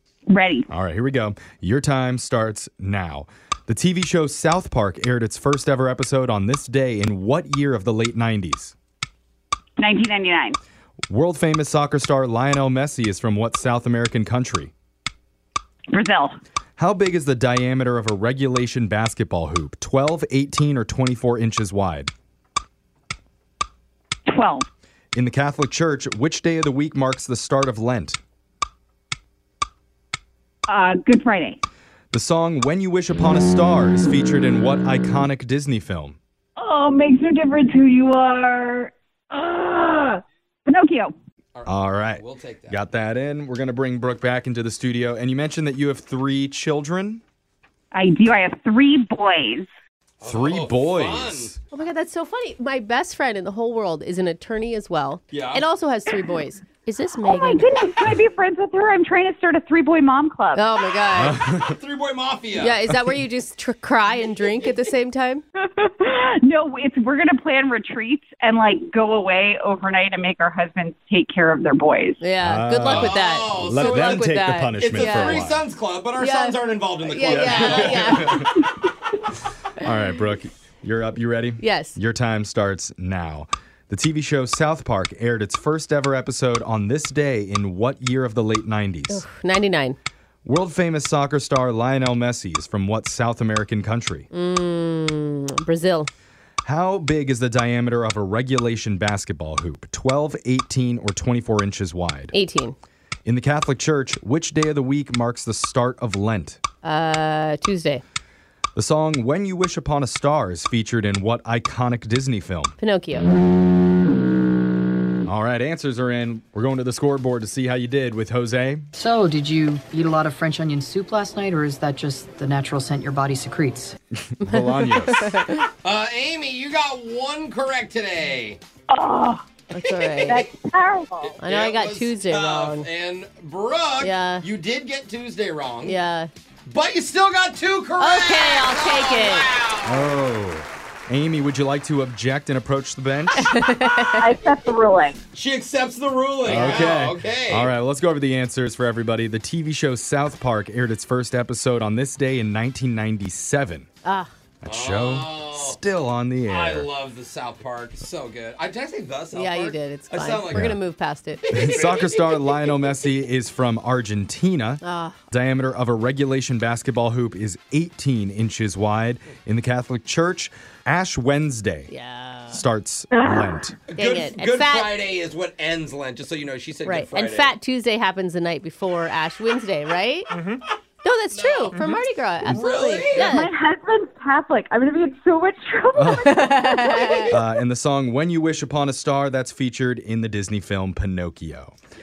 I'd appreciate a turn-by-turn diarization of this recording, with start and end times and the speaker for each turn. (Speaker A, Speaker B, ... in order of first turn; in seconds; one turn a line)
Speaker A: 0.3-0.7
Speaker B: 0.7-8.7
Speaker A: 9.8-10.6
Speaker B: 11.1-14.7
Speaker A: 15.9-16.3
Speaker B: 16.8-22.1
Speaker A: 24.3-24.7
Speaker B: 25.1-28.2
Speaker A: 30.7-31.6
Speaker B: 32.1-36.2
Speaker A: 36.6-41.1
Speaker C: 41.5-42.8
Speaker B: 41.6-47.2
Speaker A: 47.9-49.7
Speaker C: 50.2-51.5
Speaker B: 50.2-51.6
Speaker D: 51.7-57.9
Speaker C: 55.3-55.6
Speaker A: 57.2-60.6
Speaker D: 60.5-61.4
Speaker B: 61.1-61.8
Speaker C: 61.5-62.8
Speaker D: 62.5-65.4
Speaker A: 65.6-72.2
Speaker D: 72.2-75.4
Speaker B: 72.4-75.6
Speaker C: 72.8-78.4
Speaker D: 76.2-78.4
Speaker B: 77.2-78.5
Speaker B: 79.8-89.2
Speaker D: 81.6-82.0
Speaker D: 89.1-90.0
Speaker B: 90.4-94.3
Speaker D: 94.3-96.1
Speaker B: 96.6-102.3
Speaker D: 102.3-102.8
Speaker B: 103.2-106.6
Speaker D: 106.8-108.0
Speaker B: 108.7-112.8
Speaker D: 112.8-113.3
Speaker B: 115.2-118.9
Speaker E: 119.0-124.0
Speaker B: 124.2-125.4
Speaker D: 124.4-125.7
Speaker C: 125.8-128.6
Speaker A: 128.9-129.4
Speaker D: 129.7-130.5
Speaker C: 129.8-130.3
Speaker A: 130.3-131.3
Speaker C: 131.2-136.0
Speaker D: 131.4-132.9
Speaker D: 134.0-134.4
Speaker D: 135.8-136.3
Speaker C: 136.7-140.1
Speaker D: 138.0-139.4
Speaker B: 139.8-143.5
Speaker D: 143.4-144.5
Speaker A: 144.2-145.2
Speaker C: 145.3-147.7
Speaker B: 146.4-153.9
Speaker D: 154.0-154.3
Speaker B: 154.6-156.9
Speaker C: 154.7-155.8
Speaker C: 156.5-160.7
Speaker D: 159.3-161.4
Speaker B: 160.5-160.8
Speaker C: 161.5-162.3
Speaker B: 161.5-171.9
Speaker D: 164.8-165.2
Speaker D: 171.9-172.6
Speaker B: 172.5-173.8
Speaker A: 173.1-173.4
Speaker C: 173.9-177.5
Speaker D: 173.9-175.0
Speaker D: 176.8-180.3
Speaker D: 181.0-183.5
Speaker C: 181.3-183.3
Speaker A: 183.2-187.3
Speaker B: 185.9-186.5
Speaker D: 186.2-187.3
Speaker B: 187.3-191.8